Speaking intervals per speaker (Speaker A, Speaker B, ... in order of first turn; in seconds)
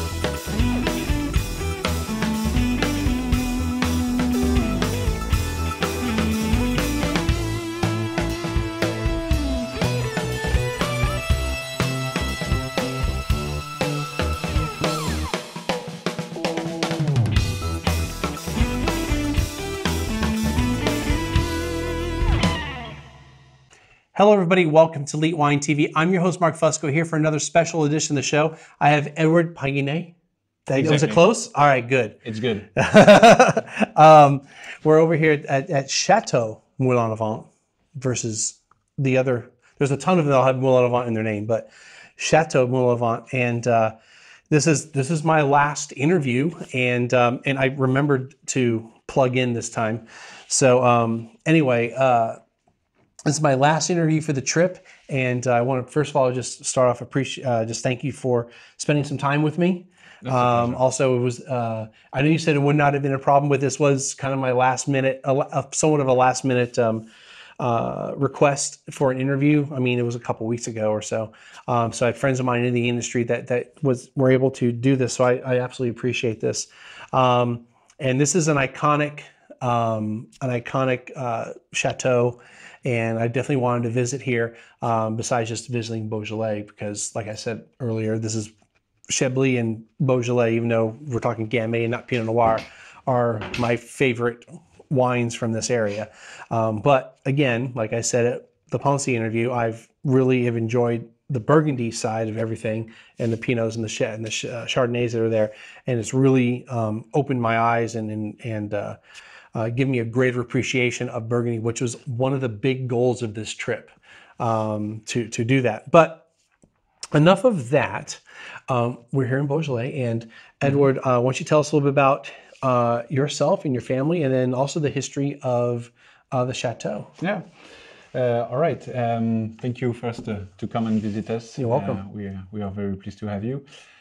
Speaker A: 24.1-30.1, 30.7-32.2, 32.8-43.9, 44.5-52.4, 53.3-67.1, 67.6-88.5, 89.1-109.0, 109.5-116.3, 117.1-127.1, 131.6-132.0
Speaker B: 30.8-31.3, 32.2-32.7, 60.2-60.8, 127.2-127.5, 128.1-133.7